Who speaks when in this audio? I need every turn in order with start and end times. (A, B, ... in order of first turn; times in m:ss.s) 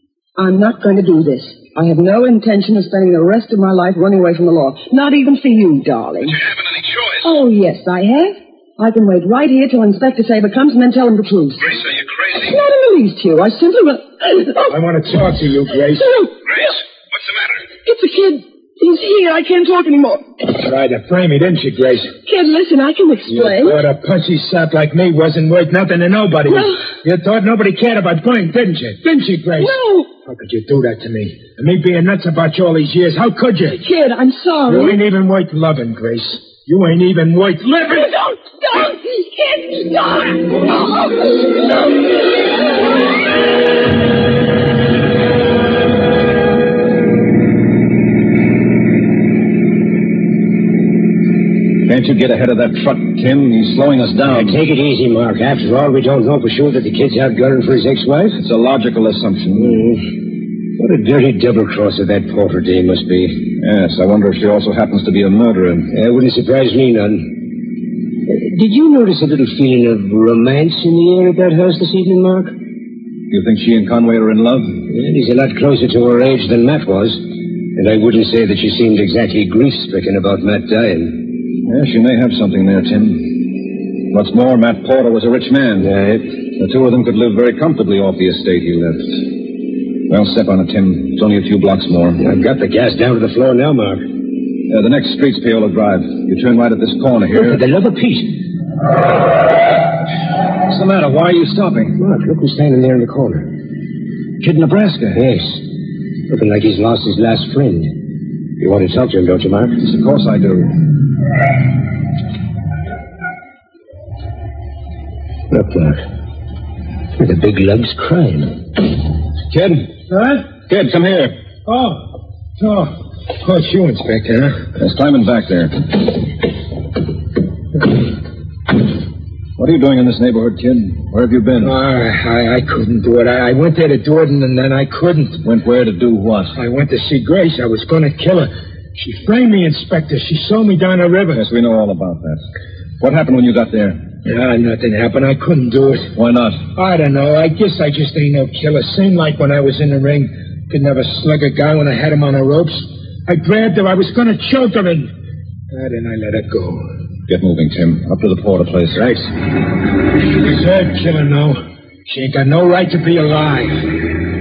0:00.4-0:06.4 A
0:06.2-0:07.4 B
0:07.2-0:11.8 A
0:11.6-0:12.6 B
0:12.3-0:14.8 A
0:14.7-0:16.2 C
0:15.9-0:16.7 A
0:16.4-0:17.6 B
0:17.8-0:20.2 A
0:20.5-0:22.1 C
0:22.2-0:23.8 A
0:23.3-0:33.8 C
0:26.5-0:26.8 A
0:29.6-0:30.1 A
0:33.7-0:35.0 A
0:34.7-0:38.1 C
0:37.9-0:41.9 A
0:51.8-0:54.6 D
0:54.3-0:58.4 E
0:58.4-0:59.9 D
0:59.5-1:00.1 E
1:00.8-1:03.4 E
1:03.5-1:05.9 D
1:05.9-1:07.6 E
1:08.2-1:12.6 E
1:13.3-1:14.8 D
1:14.9-1:21.3 E
1:21.5-1:29.5 D
1:25.8-1:26.3 E
1:30.1-1:32.2 D
1:32.2-1:34.1 E
1:34.7-1:37.6 D
1:37.4-1:38.4 E
1:40.7-1:42.0 D
1:42.0-1:43.6 E
1:44.4-1:45.2 D
1:45.1-1:45.6 E
1:46.3-1:49.8 E
1:49.8-1:50.9 D
1:55.5-1:56.0 E
1:57.1-1:58.7 E
1:59.5-1:59.9 D
2:00.1-2:00.5 C
2:00.6-2:01.4 D
2:01.6-2:04.7 C
2:04.7-2:06.2 D
2:09.6-2:11.8 D
2:11.6-2:15.4 C
2:15.4-2:16.6 D
2:16.5-2:21.4 C
2:21.3-2:22.4 D
2:23.0-2:24.1 D
2:24.2-2:26.1 C
2:26.1-2:26.7 D
2:26.7-2:35.1 C
2:35.7-2:36.9 C
2:37.3-2:39.2 D
2:40.3-2:44.0 C